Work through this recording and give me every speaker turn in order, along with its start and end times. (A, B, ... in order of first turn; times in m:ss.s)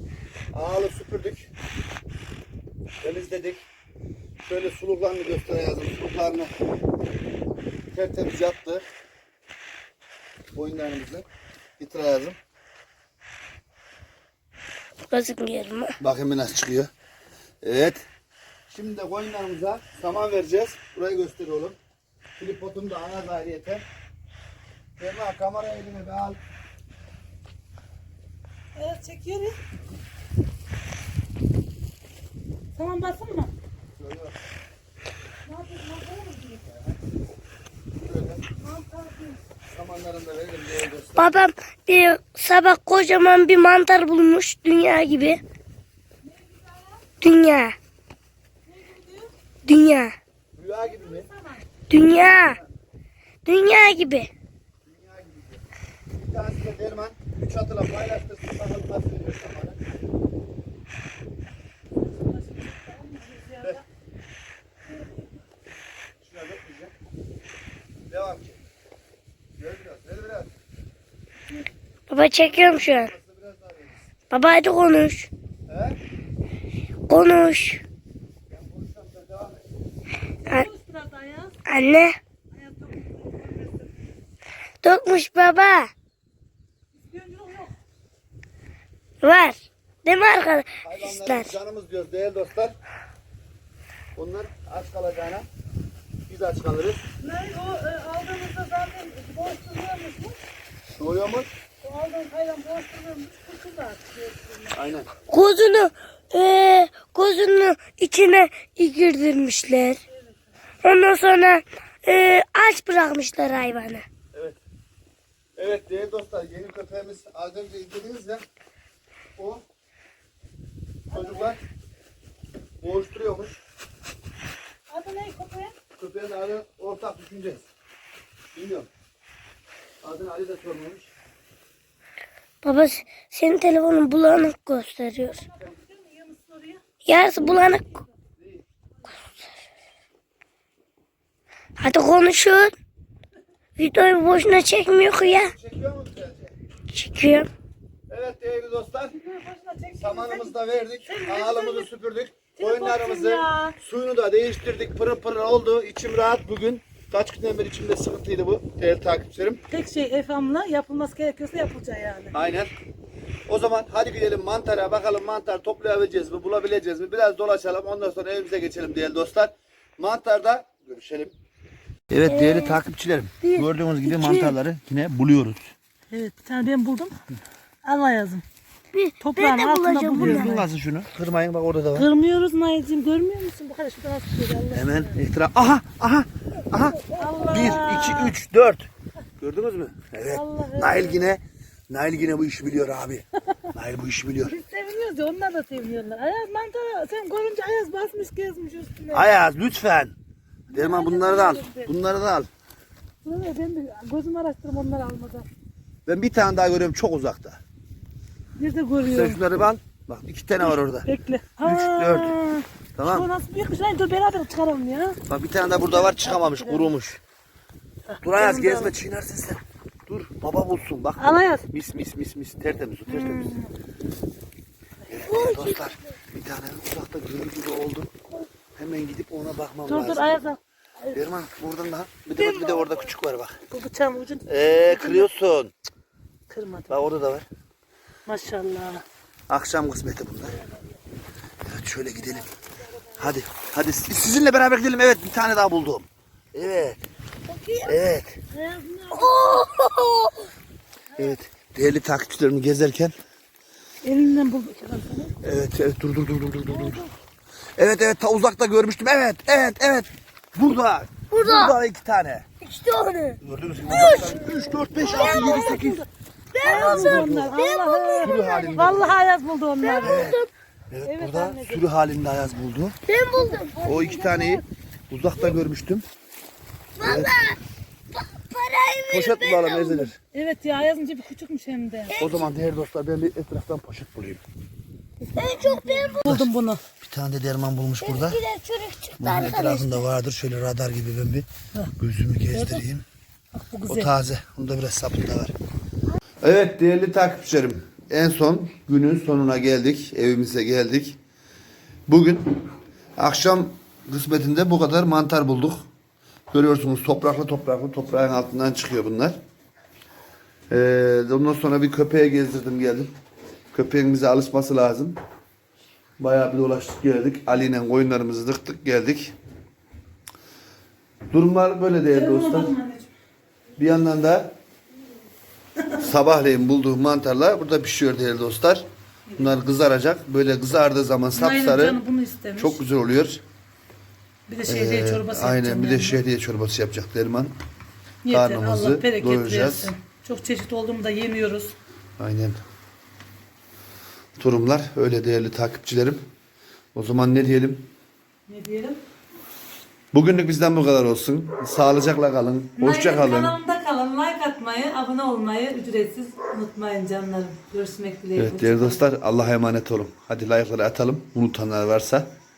0:00.5-0:01.5 A
0:03.0-0:03.6 A
0:04.4-0:06.5 A
0:07.9-0:08.8 A
0:10.5-0:11.2 A
0:11.8-0:12.4 A
0:15.1-0:16.0 B
0:16.0-0:16.9 A
0:17.6-0:18.0 A
0:18.7-0:21.8 A
0:22.4-0:23.8 A
0:25.0-0:26.4 A
0:28.8-0:29.6 C
0:32.8-0:33.5 C
0:34.0-0:34.3 A
0:35.5-0:36.8 C
0:38.0-0:38.4 A
0:38.5-0:39.4 C
0:39.7-0:41.3 A
0:41.2-0:45.4 B
0:46.2-0:47.0 C
0:47.2-0:47.7 B
0:48.7-0:49.3 C
0:49.6-0:50.1 B
0:50.6-0:51.3 A
0:50.8-0:51.7 C
0:51.9-0:52.6 B
0:52.0-0:52.6 A
0:53.4-0:54.3 B
0:54.8-0:55.6 A
0:56.2-0:59.8 A
1:02.0-1:03.8 C
1:04.9-1:05.2 C
1:06.2-1:06.9 A
1:08.1-1:08.6 A
1:09.6-1:10.5 A
1:12.1-1:13.1 B
1:12.4-1:13.9 A
1:14.3-1:15.3 B
1:15.7-1:16.0 A
1:17.1-1:17.8 B
1:18.5-1:19.6 A
1:20.4-1:21.6 C
1:21.6-1:22.1 B
1:22.5-1:23.9 C
1:24.8-1:25.9 B
1:27.0-1:27.7 C
1:29.2-1:31.5 B
1:30.8-1:32.7 A
1:34.1-1:35.5 A
1:36.3-1:37.0 A
1:37.2-1:40.4 C
1:41.0-1:41.5 A
1:41.8-1:44.8 C
1:44.7-1:45.1 A
1:45.3-1:50.0 B
1:50.8-1:54.0 B
1:55.6-1:58.4 A
1:59.4-1:59.6 A
2:01.1-2:01.5 C
2:01.1-2:01.6 A
2:02.8-2:03.6 A
2:04.9-2:05.7 C
2:06.0-2:07.7 A
2:08.5-2:08.9 A
2:10.0-2:11.1 A
2:12.6-2:15.4 B
2:15.2-2:16.8 C
2:17.0-2:17.8 B
2:17.4-2:18.0 C
2:18.4-2:18.6 A
2:21.8-2:22.7 B
2:23.8-2:25.5 B
2:25.2-2:26.5 A
2:26.9-2:27.5 B
2:28.1-2:29.1 A
2:29.1-2:31.9 C
2:30.0-2:39.6 A
2:32.6-2:33.7 C
2:39.7-2:42.4 C
2:42.3-2:42.7 A
2:43.5-2:51.3 A
2:52.1-2:55.7 A
2:52.2-2:52.8 B
2:53.4-2:54.6 C
2:56.1-2:57.2 C
2:57.8-2:58.4 C
2:58.9-3:00.5 B
2:59.2-3:00.7 C
3:00.1-3:02.1 A
3:01.9-3:05.2 C
3:04.7-3:08.9 A
3:07.1-3:08.4 C
3:07.2-3:07.5 B
3:09.4-3:14.6 A
3:10.3-3:11.3 C
3:14.4-3:19.3 C
3:19.1-3:20.1 A
3:20.7-3:21.9 C
3:20.7-3:22.5 A
3:23.2-3:25.4 C
3:26.0-3:27.6 A
3:28.6-3:29.4 C
3:29.0-3:31.1 A
3:30.6-3:35.2 C
3:31.6-3:32.3 A
3:33.0-3:33.3 A
3:35.3-3:37.2 A
3:35.7-3:36.9 C
3:38.1-3:38.9 C
3:38.2-3:43.5 A
3:41.2-3:41.6 C
3:43.1-3:43.7 C
3:45.1-3:48.1 A
3:45.3-3:45.9 B
3:48.8-3:50.4 A
3:49.8-3:51.2 C
3:51.1-3:53.6 A
3:52.3-3:53.1 C
3:53.7-3:55.3 C
3:54.5-3:55.7 A
3:56.5-3:57.1 C
3:56.9-3:57.4 A
3:58.3-3:59.0 C
3:59.5-4:00.6 A
4:00.6-4:01.0 C
4:01.6-4:02.4 A
4:02.1-4:03.3 C
4:03.2-4:07.0 A
4:07.5-4:08.0 C
4:07.8-4:08.4 A
4:08.5-4:09.7 C
4:09.1-4:10.4 B
4:11.1-4:11.4 C
4:11.2-4:13.1 A
4:14.0-4:15.4 C
4:15.4-4:17.0 A
4:16.7-4:17.1 C
4:17.8-4:22.5 A
4:21.3-4:21.7 B
4:22.6-4:25.8 B
4:23.4-4:26.0 A
4:24.0-4:24.2 C
4:24.9-4:26.1 C
4:26.5-4:28.8 B
4:26.6-4:30.3 C
4:26.6-4:27.6 A
4:28.2-4:29.1 A
4:29.8-4:30.5 B
4:30.0-4:30.4 A
4:30.9-4:33.0 A
4:31.0-4:31.8 C
4:33.1-4:33.8 B
4:33.3-4:34.6 C
4:33.8-4:36.0 A
4:37.0-4:37.6 B
4:37.0-4:37.3 A
4:38.1-4:40.1 B
4:39.1-4:40.1 A
4:40.3-4:42.2 C
4:42.1-4:42.5 B
4:42.2-4:44.4 A
4:45.4-4:46.3 B
4:45.6-4:46.8 C
4:47.0-4:48.4 A
4:48.0-4:50.0 B
4:49.2-4:53.0 A
4:52.5-4:52.8 C
4:53.5-4:54.1 C
4:53.9-4:55.5 A
4:56.4-5:01.2 A
5:02.1-5:02.5 A
5:03.2-5:05.8 A
5:06.5-5:09.4 A
5:10.7-5:13.1 A
5:13.7-5:15.2 A
5:16.2-5:19.3 A
5:21.3-5:22.7 A
5:22.1-5:23.1 C
5:23.8-5:24.5 A
5:25.9-5:28.8 A
5:29.4-5:32.0 A
5:31.3-5:32.8 C
5:32.6-5:33.4 A
5:34.5-5:36.2 C
5:34.6-5:37.5 A
5:38.2-5:41.7 C
5:38.3-5:39.9 A
5:42.2-5:42.6 A
5:44.4-5:46.2 A
5:46.9-5:47.9 A
5:48.5-5:49.0 C
5:50.1-5:53.6 A
5:52.8-5:59.0 C
5:58.4-6:02.3 A